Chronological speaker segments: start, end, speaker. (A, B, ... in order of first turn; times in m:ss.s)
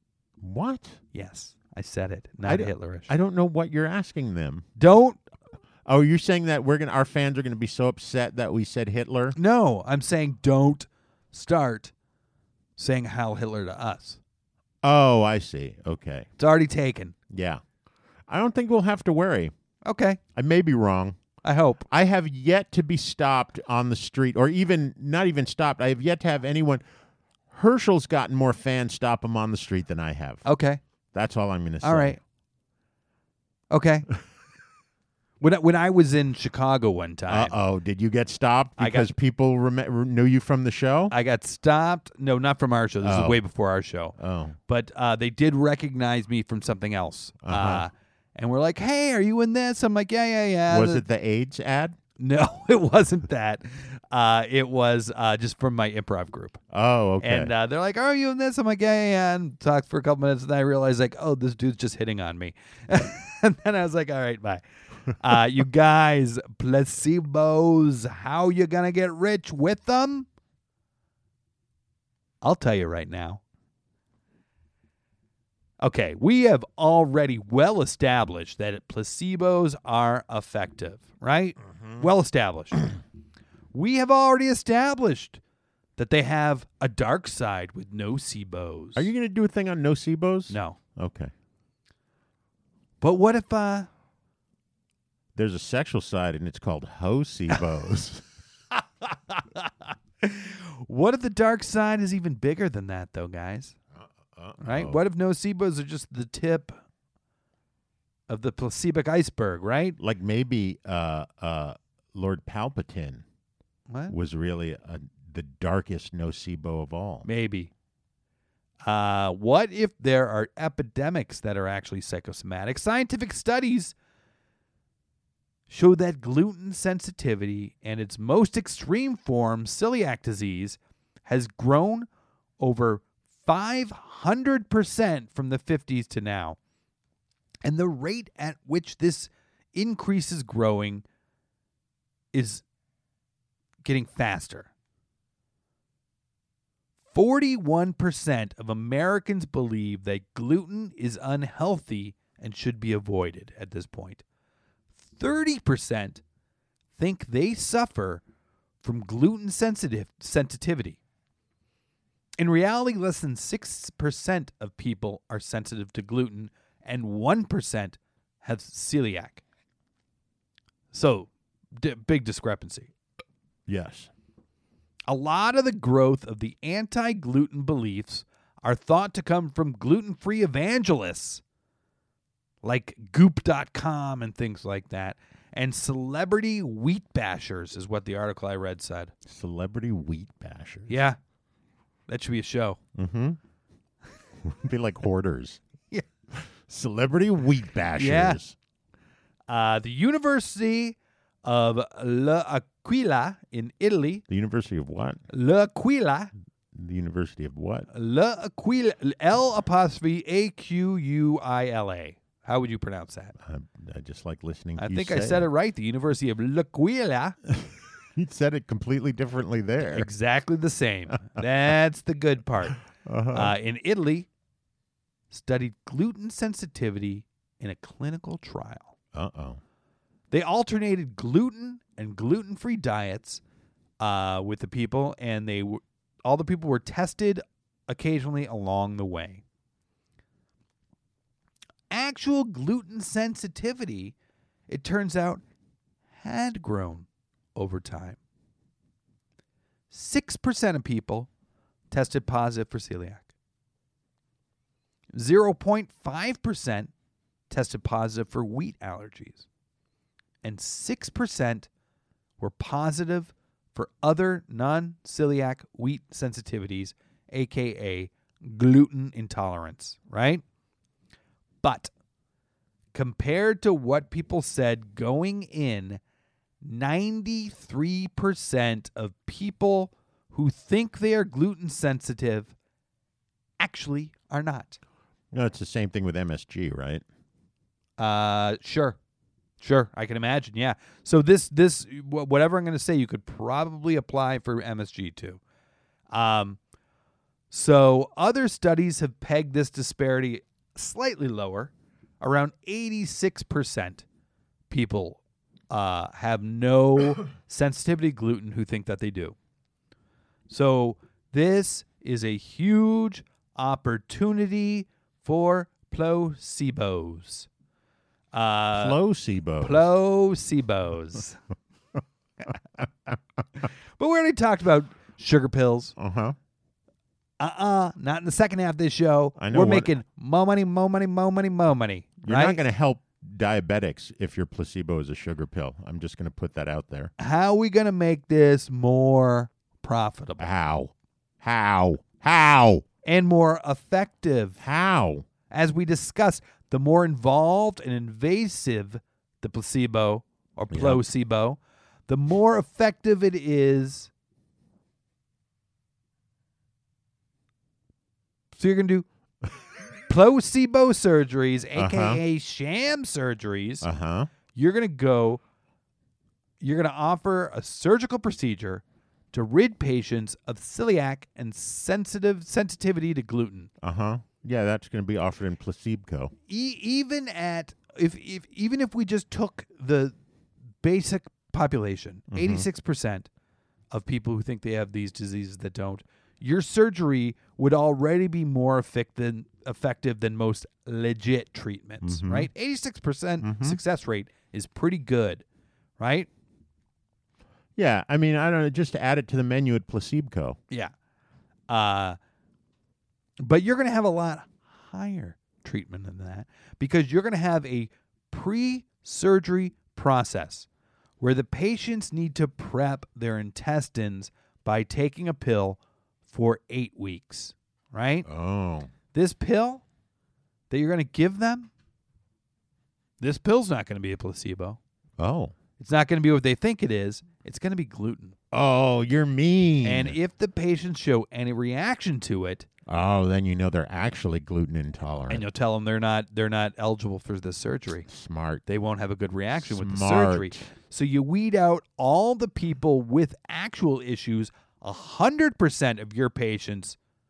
0:00.4-0:01.0 A
0:01.1-0:03.1 B
0:02.4-0:04.7 A
0:04.8-0:05.2 B
0:05.9-0:09.4 A
0:09.4-0:11.9 B
0:12.8-0:14.2 B
0:14.8-0:16.3 A
0:16.4-0:17.2 B
0:17.3-0:17.6 A
0:18.3-0:19.5 A
0:19.9-0:20.2 B
0:20.4-0:21.2 A
0:21.4-0:21.8 B
0:21.9-0:26.8 A
0:27.5-0:30.4 A
0:30.4-0:30.8 B
0:31.1-0:32.2 A
0:31.8-0:32.2 B
0:33.7-0:34.1 B
0:35.4-0:37.5 B
0:37.3-0:41.1 A
0:38.8-0:39.1 B
0:41.1-0:44.2 B
0:43.0-0:43.4 A
0:44.2-0:44.6 A
0:44.7-0:51.0 B
0:47.4-0:47.9 A
0:50.7-0:52.0 A
0:52.2-0:56.6 B
0:56.7-0:57.5 A
0:57.2-1:10.3 B
1:12.4-1:13.4 B
1:15.8-1:22.9 B
1:23.7-1:25.4 B
1:26.0-1:29.1 B
1:29.0-1:31.3 A
1:30.5-1:30.8 B
1:33.0-1:33.9 B
1:35.4-1:38.2 A
1:39.3-1:39.7 B
1:40.2-1:43.8 B
1:44.3-1:45.0 A
1:44.6-1:46.8 B
1:48.3-1:50.0 B
1:50.0-1:53.2 A
1:53.9-1:54.2 B
1:54.1-1:57.3 A
1:57.2-1:57.7 B
1:58.8-2:03.9 B
2:05.7-2:12.1 B
2:12.6-2:16.6 B
2:17.6-2:21.0 B
2:22.3-2:22.6 B
2:23.8-2:24.7 B
2:27.1-2:34.2 B
2:35.1-2:36.2 B
2:37.0-2:38.2 B
2:38.8-2:41.0 B
2:42.4-2:49.4 B
2:50.9-2:52.9 B
2:53.7-2:54.1 A
2:55.1-3:01.4 B
3:02.6-3:09.1 B
3:09.3-3:11.0 A
3:10.9-3:11.2 B
3:12.1-3:12.8 B
3:13.0-3:13.4 A
3:14.4-3:15.6 A
3:16.3-3:18.6 A
3:18.0-3:18.4 B
3:19.5-3:24.2 B
3:24.3-3:25.2 A
3:25.3-3:26.3 B
3:26.7-3:27.9 A
3:27.9-3:33.4 B
3:33.4-3:35.5 A
3:34.8-3:37.4 B
3:37.5-3:40.1 A
3:39.8-3:42.8 B
3:43.0-3:43.6 A
3:43.3-3:44.3 B
3:45.3-3:49.0 B
3:49.1-3:49.6 A
3:50.3-3:53.4 B
3:54.0-3:59.4 B
4:01.9-4:04.1 B
4:04.7-4:05.4 B
4:06.2-4:08.2 B
4:09.9-4:11.3 B
4:11.9-4:13.3 B
4:15.1-4:16.9 B
4:17.5-4:19.5 B
4:20.4-4:21.7 B
4:22.4-4:30.4 B
4:31.6-4:31.9 B
4:32.9-4:36.0 B
4:36.6-4:42.5 B
4:43.6-4:44.8 B
4:45.3-4:47.0 A
4:48.0-4:49.0 B
4:49.6-4:55.4 B
4:56.1-4:56.6 B
4:57.5-5:04.0 B
5:04.7-5:09.4 B
5:10.5-5:17.5 B
5:18.3-5:19.0 B
5:18.7-5:19.9 A
5:19.6-5:21.4 B
5:24.0-5:26.0 B
5:26.0-5:26.4 A
5:27.4-5:32.6 B
5:29.4-5:29.9 A
5:32.2-5:37.1 A
5:37.2-5:40.5 B
5:40.4-5:42.8 A
5:43.0-5:44.6 B
5:44.6-5:45.3 A
5:45.5-5:54.1 B
5:50.7-5:51.0 A
5:58.6-5:59.1 B
6:00.1-6:03.9 B
6:01.8-6:02.2 A
6:03.8-6:04.3 A
6:04.5-6:05.4 B
6:06.6-6:13.7 B
6:13.8-6:16.3 A
6:16.5-6:20.2 B
6:20.8-6:23.3 B
6:22.3-6:22.7 A
6:23.9-6:35.4 B
6:32.0-6:32.5 A
6:33.4-6:33.8 A
6:36.0-6:36.3 B
6:37.8-6:40.6 A
6:41.7-6:42.2 B
6:43.4-6:50.7 B
6:51.2-6:58.3 B
6:58.3-6:58.9 A
6:59.1-6:59.8 B
7:00.7-7:01.7 B
7:03.2-7:04.8 B
7:05.2-7:05.5 A
7:05.8-7:08.4 B
7:08.5-7:10.2 A
7:09.8-7:12.7 B
7:12.9-7:15.4 A
7:15.3-7:18.1 B
7:18.1-7:18.6 A
7:18.7-7:27.0 B
7:19.6-7:20.7 A